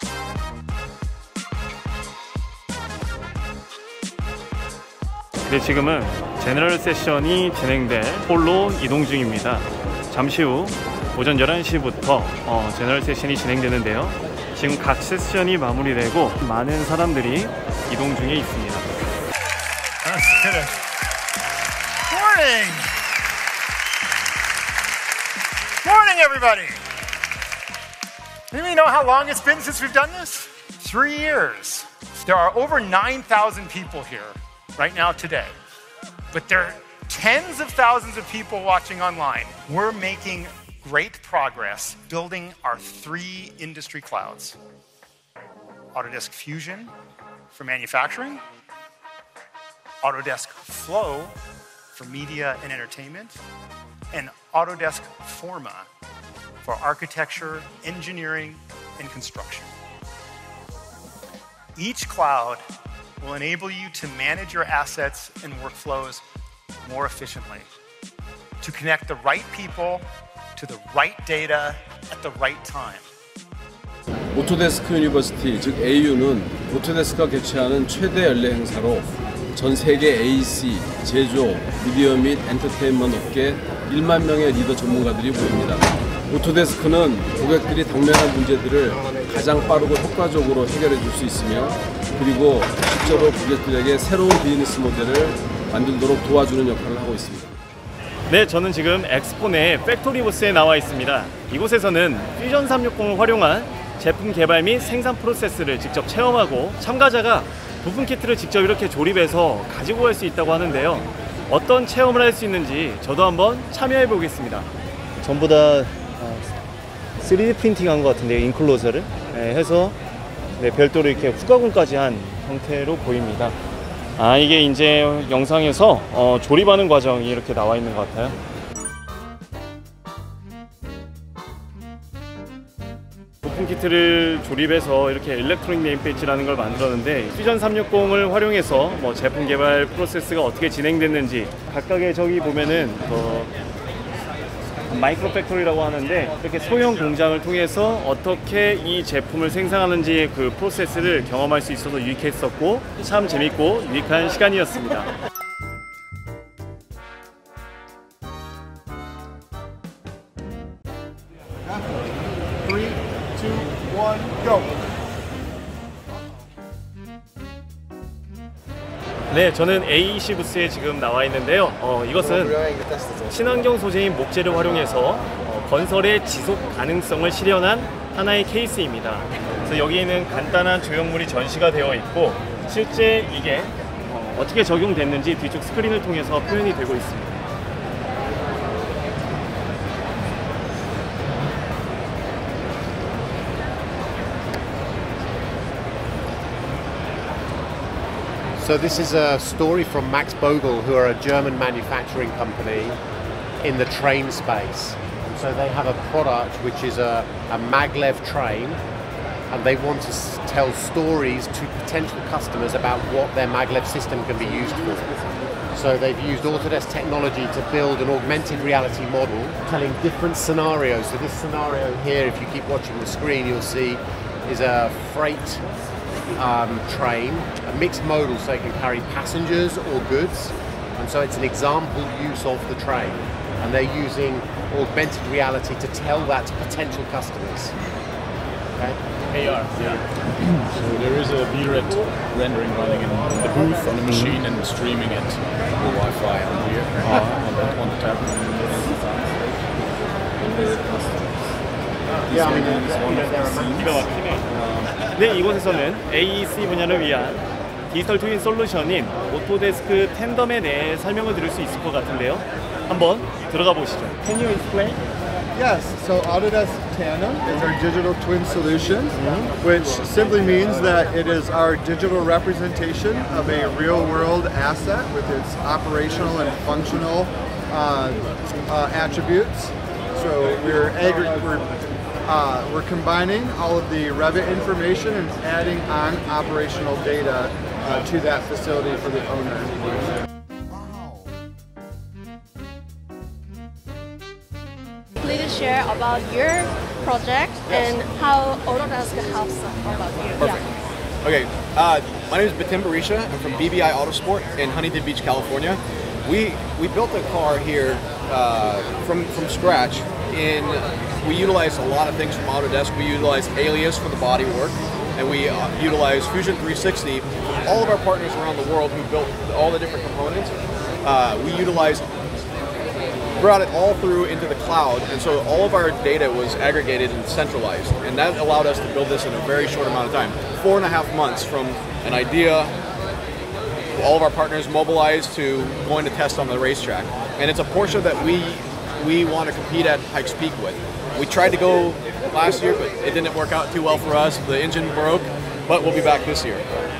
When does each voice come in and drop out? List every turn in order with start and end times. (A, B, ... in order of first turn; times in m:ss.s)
0:05.5-0:18.9 A
0:20.0-0:20.8 B
0:22.1-0:22.9 B
0:25.8-0:26.8 B
0:28.5-0:35.5 B
0:36.3-0:44.6 B
0:45.9-0:46.9 B
0:47.5-0:48.4 B
0:50.0-0:51.3 B
0:51.9-0:53.4 B
0:54.1-0:55.9 B
0:56.6-0:59.7 B
1:01.8-1:02.6 B
1:03.2-1:06.2 B
1:06.8-1:07.7 B
1:08.6-1:10.0 B
1:10.6-1:13.1 B
1:14.3-1:37.5 C
1:38.3-1:56.5 A
1:57.2-2:00.0 A
2:00.6-2:03.6 A
2:04.2-2:08.4 A
2:13.4-2:23.5 A
2:24.9-2:35.1 A
2:42.6-2:44.7 D
2:49.3-2:52.6 A
2:53.3-3:07.4 A
3:18.6-3:23.0 E
3:23.6-3:28.8 E
3:29.5-3:35.1 E
3:35.7-3:45.6 E
3:46.4-3:57.7 E
4:03.2-4:04.4 F
4:05.8-4:06.5 F
4:07.0-4:07.7 F
4:12.3-4:14.1 E
4:13.1-4:14.4 A
4:15.0-4:25.0 A
4:25.5-4:41.7 D
4:29.1-4:29.5 A
4:42.2-4:50.0 D
4:55.2-5:00.7 G
5:01.2-5:22.1 H
5:23.4-5:32.8 H
5:33.9-5:46.7 H